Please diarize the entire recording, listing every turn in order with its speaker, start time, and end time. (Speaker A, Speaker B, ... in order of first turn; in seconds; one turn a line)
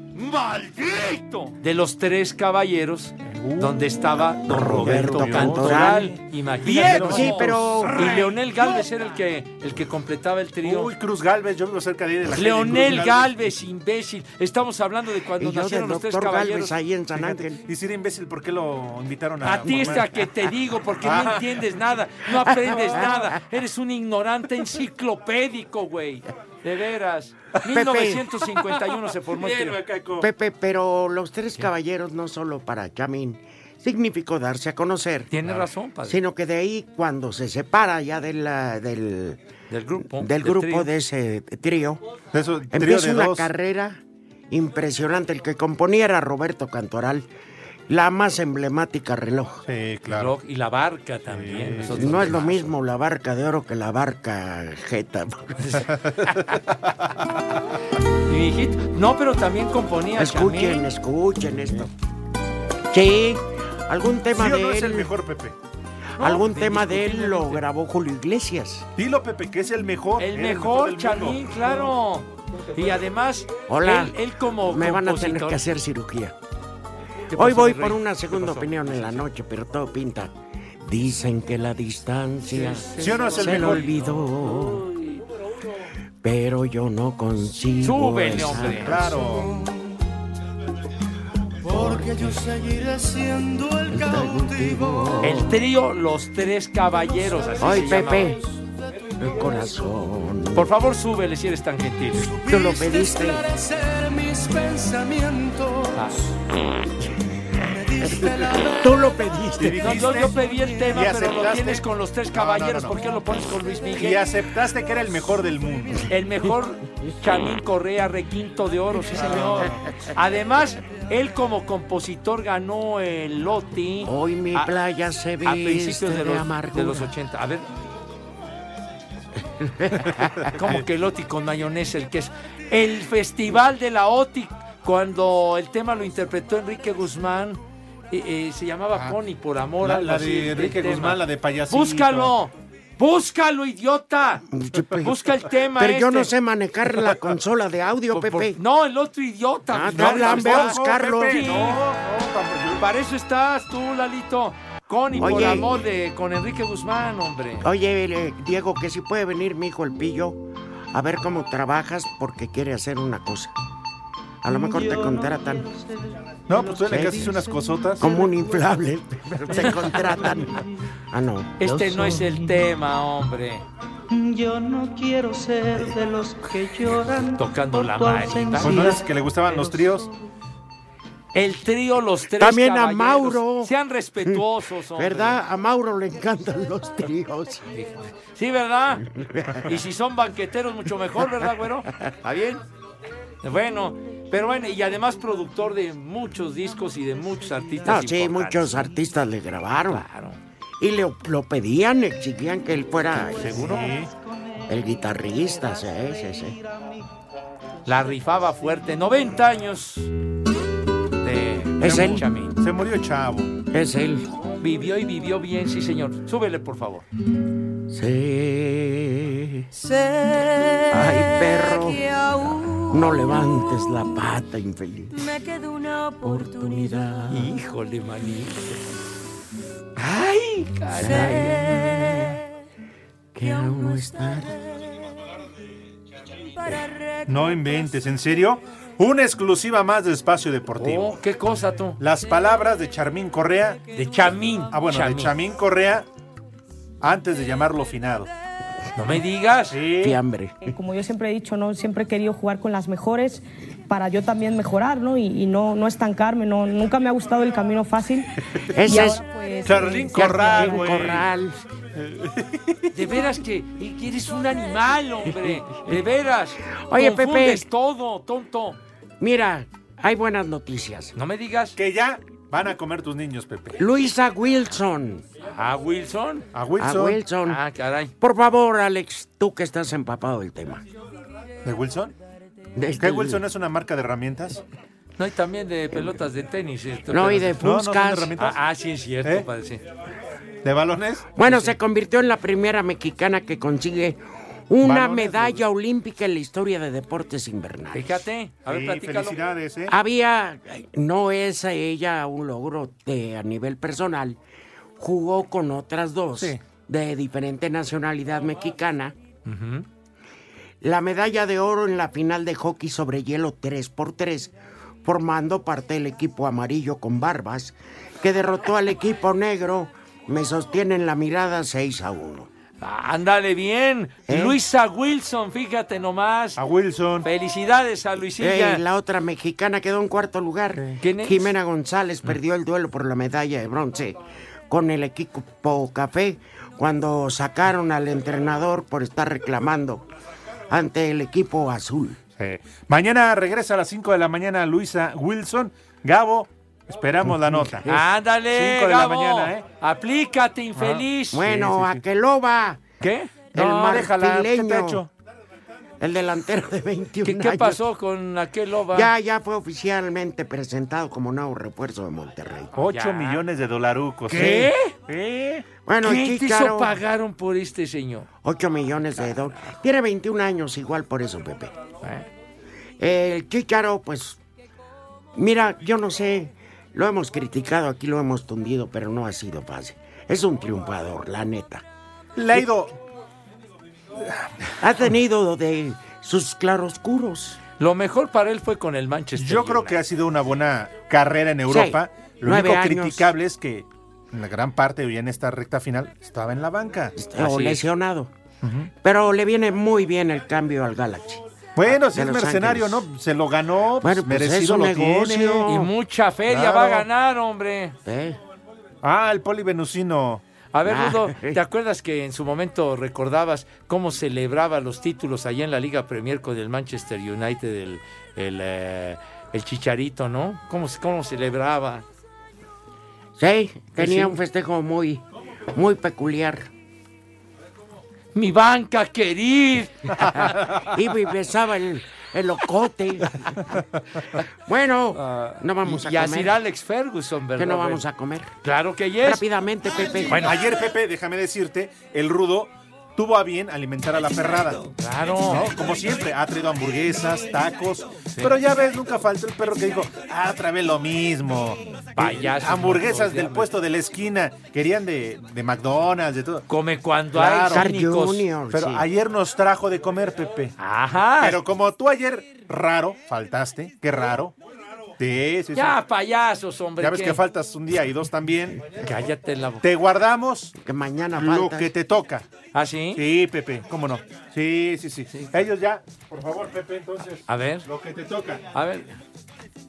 Speaker A: 0.2-10.9
Speaker B: 3.2-3.8
Speaker B: 4.4-5.9
Speaker C: 4.5-6.2
Speaker B: 6.7-8.8
Speaker C: 6.8-8.1
Speaker B: 10.6-13.3
Speaker A: 12.3-16.7
Speaker C: 15.4-17.6
Speaker B: 17.1-20.1
Speaker A: 19.4-29.8
Speaker C: 19.6-20.0
Speaker B: 21.0-21.4
Speaker C: 22.5-23.0
Speaker C: 27.7-28.3
Speaker B: 29.4-30.3
Speaker C: 30.2-39.4
Speaker A: 35.3-36.2
Speaker A: 39.7-40.9
Speaker C: 40.0-42.0
Speaker B: 42.3-43.5
Speaker C: 42.7-47.3
Speaker C: 47.9-49.6
Speaker B: 49.7-50.3
Speaker A: 50.1-52.7
Speaker B: 51.3-52.4
Speaker C: 51.9-55.6
Speaker A: 55.6-56.6
Speaker A: 58.2-60.9
Speaker C: 60.1-61.9
Speaker C: 62.9-65.1
Speaker B: 64.3-65.5
Speaker C: 66.2-68.9
Speaker A: 66.2-67.6
Speaker B: 69.0-71.6
Speaker A: 70.2-75.6
Speaker C: 73.7-76.3
Speaker A: 77.3-79.2
Speaker C: 77.3-84.8
Speaker A: 82.5-85.2
Speaker B: 83.0-83.9
Speaker C: 86.2-89.2
Speaker A: 87.8-89.0
Speaker B: 88.7-89.5
Speaker D: 91.6-95.2
Speaker C: 91.6-92.3
Speaker C: 93.9-95.6
Speaker A: 95.2-98.4
Speaker C: 97.6-98.4
Speaker D: 97.8-98.7
Speaker C: 99.2-100.7
Speaker A: 100.5-102.3
Speaker C: 102.2-103.5
Speaker D: 102.3-106.0
Speaker A: 105.9-106.2
Speaker D: 107.6-109.1
Speaker C: 108.0-110.0
Speaker B: 109.6-111.8
Speaker A: 109.8-114.2
Speaker B: 112.3-113.0
Speaker B: 114.0-116.1
Speaker A: 116.1-124.7
Speaker C: 119.1-119.7
Speaker C: 124.0-127.1
Speaker A: 125.4-127.7
Speaker C: 129.6-130.5
Speaker A: 130.4-146.3
Speaker B: 139.8-142.3
Speaker C: 144.5-145.2
Speaker C: 145.7-148.6
Speaker A: 148.1-151.8
Speaker C: 149.7-151.4
Speaker B: 149.9-152.8
Speaker A: 152.8-157.7
Speaker C: 155.1-155.8
Speaker C: 157.6-163.5
Speaker C: 164.4-165.7
Speaker D: 164.4-168.8
Speaker B: 166.5-168.1
Speaker C: 166.9-167.2
Speaker C: 168.0-171.6
Speaker D: 169.5-170.7
Speaker A: 171.6-173.6
Speaker D: 171.6-172.6
Speaker D: 174.1-180.2
Speaker A: 177.3-179.0
Speaker B: 178.6-180.1
Speaker A: 181.3-185.4
Speaker C: 182.4-187.7
Speaker A: 187.7-189.1
Speaker C: 189.0-189.7
Speaker A: 189.6-192.6
Speaker A: 193.4-198.9
Speaker C: 197.8-200.1
Speaker A: 199.9-200.4
Speaker C: 200.8-203.9
Speaker D: 203.1-207.1
Speaker A: 203.3-204.0
Speaker B: 203.7-204.1
Speaker C: 204.7-206.6
Speaker D: 207.8-209.1
Speaker A: 207.8-210.1
Speaker A: 211.2-212.6
Speaker C: 211.8-212.2
Speaker B: 212.6-213.6
Speaker C: 213.7-214.3
Speaker A: 214.6-217.1
Speaker C: 217.9-219.7
Speaker C: 220.9-222.0
Speaker C: 222.9-225.3
Speaker C: 226.2-227.6
Speaker A: 227.3-228.9
Speaker A: 229.9-231.9
Speaker C: 230.9-232.4
Speaker C: 233.3-234.6
Speaker B: 236.7-241.2
Speaker A: 240.8-242.0
Speaker B: 242.0-243.8
Speaker A: 243.9-245.4
Speaker B: 244.7-246.1
Speaker B: 247.0-248.3
Speaker A: 248.9-249.8
Speaker B: 249.7-250.2
Speaker C: 250.0-250.7
Speaker E: 250.6-261.1
Speaker C: 258.7-259.2
Speaker B: 259.6-261.2
Speaker C: 260.1-261.6
Speaker B: 261.9-262.8
Speaker A: 262.9-268.8
Speaker C: 265.4-265.7
Speaker C: 266.9-267.6
Speaker C: 269.2-271.1
Speaker A: 271.1-271.8
Speaker B: 271.8-273.8
Speaker C: 273.8-275.2
Speaker A: 275.4-276.5
Speaker B: 276.5-277.2
Speaker C: 276.8-277.6
Speaker A: 277.4-278.1
Speaker C: 278.2-280.8
Speaker B: 281.6-282.1
Speaker C: 282.7-283.4
Speaker B: 283.0-284.6
Speaker A: 285.2-287.6
Speaker C: 285.9-286.2
Speaker C: 287.1-288.3
Speaker B: 287.6-288.6
Speaker A: 288.4-289.8
Speaker B: 290.6-291.3
Speaker C: 291.3-298.2
Speaker A: 291.4-291.7
Speaker B: 294.8-295.6
Speaker A: 297.9-299.4
Speaker B: 298.7-299.9
Speaker C: 299.9-304.4
Speaker C: 305.0-309.1
Speaker A: 309.4-309.9
Speaker C: 310.8-322.5
Speaker A: 322.8-326.6
Speaker C: 324.3-324.6
Speaker B: 326.6-327.3
Speaker A: 327.2-328.8
Speaker C: 328.4-340.1
Speaker A: 331.0-331.5
Speaker C: 340.7-342.2
Speaker B: 342.4-347.9
Speaker C: 347.3-348.0
Speaker A: 347.9-351.5
Speaker B: 348.5-349.7
Speaker B: 350.8-352.0
Speaker C: 351.3-352.9
Speaker A: 353.0-353.6
Speaker C: 353.5-355.0
Speaker B: 353.5-355.1
Speaker C: 356.0-357.8
Speaker A: 357.2-359.1
Speaker C: 358.9-362.7
Speaker B: 362.7-365.7
Speaker A: 362.8-363.4
Speaker A: 364.3-364.9
Speaker C: 365.8-367.0
Speaker A: 366.0-368.3
Speaker C: 368.4-371.7
Speaker A: 372.0-372.3
Speaker C: 373.0-374.4
Speaker C: 375.3-381.8
Speaker B: 382.4-383.0
Speaker C: 384.8-387.6
Speaker A: 387.8-390.0
Speaker B: 389.4-397.2
Speaker C: 391.7-393.3
Speaker C: 397.1-398.3
Speaker A: 397.4-397.8
Speaker B: 398.6-398.9
Speaker C: 399.0-403.1
Speaker B: 401.8-405.6
Speaker C: 404.0-405.9
Speaker A: 405.7-407.9
Speaker B: 406.5-407.1
Speaker C: 408.0-408.4
Speaker B: 409.0-410.4
Speaker A: 410.7-422.0
Speaker C: 410.8-411.6
Speaker C: 423.4-426.7
Speaker A: 423.9-424.4
Speaker A: 428.3-430.5
Speaker C: 430.7-433.6
Speaker C: 434.6-436.5
Speaker A: 435.8-438.0
Speaker C: 437.6-438.6
Speaker A: 438.6-439.4
Speaker C: 439.2-440.5
Speaker A: 440.3-440.6
Speaker B: 440.4-444.8
Speaker A: 445.0-445.7
Speaker B: 445.4-456.6
Speaker A: 452.1-453.7
Speaker A: 456.7-458.5
Speaker B: 457.3-457.8
Speaker C: 457.7-459.1
Speaker B: 458.7-460.7
Speaker A: 460.8-461.6
Speaker B: 461.4-464.5
Speaker B: 465.2-466.0
Speaker A: 465.7-467.4
Speaker B: 467.0-468.9
Speaker A: 468.9-469.9
Speaker B: 469.8-470.7
Speaker C: 470.8-471.9
Speaker B: 471.4-472.5
Speaker A: 472.7-473.2
Speaker B: 473.1-478.6
Speaker A: 477.5-477.9
Speaker A: 478.7-479.2